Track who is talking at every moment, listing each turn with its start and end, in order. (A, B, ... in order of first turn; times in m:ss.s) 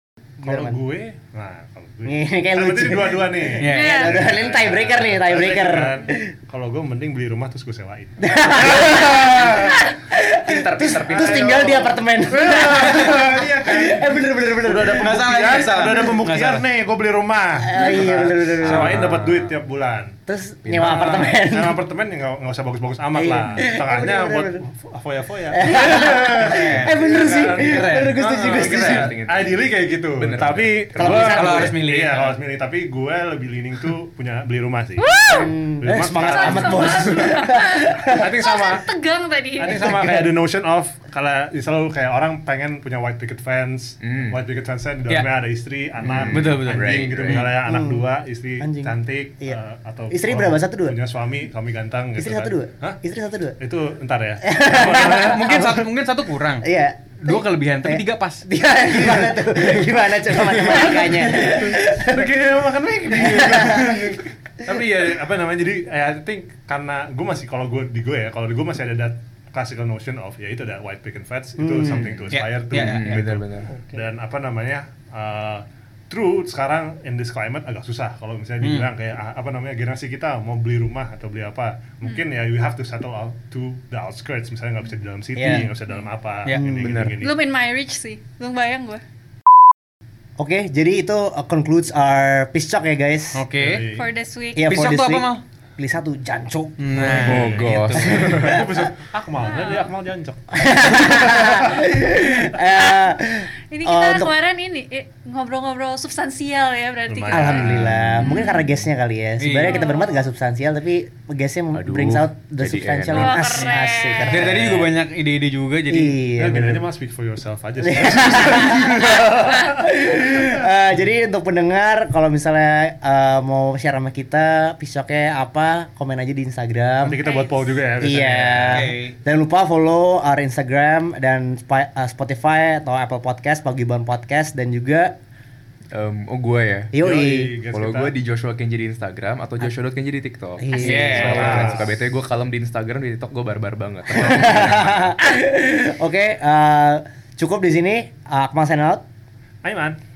0:00.4-0:09.9 A
0:00.5-0:00.8 B
0:02.0-0:06.3 B
0:03.6-0:04.1 C
0:03.7-0:04.1 D
0:08.2-0:15.2 B
0:10.3-0:11.8 E
0:11.1-0:20.2 A
0:15.0-0:16.6 C
0:15.7-0:16.1 B
0:17.6-0:19.0 B
0:18.6-0:19.5 E
0:18.7-0:19.0 C
0:20.3-0:21.8 B
0:20.6-0:21.2 E
0:20.8-0:35.2 A
0:23.2-0:24.6 B
0:25.5-0:29.1 B
0:26.4-0:29.1 C
0:28.5-0:29.6 E
0:30.2-0:31.1 E
0:31.0-0:31.8 B
0:31.0-0:32.4 C
0:35.0-0:40.0 D
0:35.2-0:38.3 B
0:35.8-0:37.1 A
0:38.1-0:38.9 A
0:39.6-0:53.0 A
0:39.8-0:40.2 B
0:44.0-0:44.4 E
0:46.0-0:47.5 E
0:46.2-0:47.6 C
0:47.6-0:48.1 B
0:48.6-0:49.6 B
0:50.1-0:51.0 B
0:52.2-0:53.6 B
0:53.6-0:55.4 A
0:54.4-0:55.9 B
0:54.8-0:56.7 C
0:56.6-1:02.3 B
0:57.2-0:58.5 C
1:00.4-1:01.3 C
1:01.3-1:27.4 A
1:03.1-1:04.2 B
1:11.6-1:12.1 B
1:11.9-1:13.7 E
1:12.3-1:13.4 C
1:18.6-1:18.9 C
1:25.4-1:25.7 B
1:26.5-1:27.1 B
1:26.8-1:27.2 E
1:27.2-1:29.0 D
1:30.4-1:33.4 B
1:33.4-1:33.9 C
1:33.6-1:34.1 A
1:33.9-1:34.8 D
1:34.6-1:38.7 B
1:34.6-1:35.4 C
1:36.8-1:38.3 C
1:37.0-1:38.6 E
1:37.2-1:41.9 A
1:39.4-1:39.9 D
1:40.5-1:44.3 B
1:43.7-1:48.7 D
1:47.1-1:47.8 A
1:47.3-1:54.9 B
1:47.5-1:48.5 E
1:49.4-1:49.9 C
1:49.6-1:50.3 D
1:51.7-1:53.4 E
1:53.1-1:54.7 D
1:54.3-1:56.2 C
1:55.9-1:56.9 B
1:56.4-2:00.6 A
1:57.8-2:07.2 B
2:07.0-2:08.9 A
2:07.2-2:07.6 D
2:08.0-2:15.2 B
2:08.7-2:09.2 C
2:15.9-2:16.9 E
2:16.9-2:17.5 B
2:17.0-2:18.2 A
2:17.7-2:25.1 E
2:20.6-2:21.8 B
2:20.8-2:21.6 C
2:21.1-2:21.9 A
2:24.1-2:29.0 B
2:29.6-2:30.0 A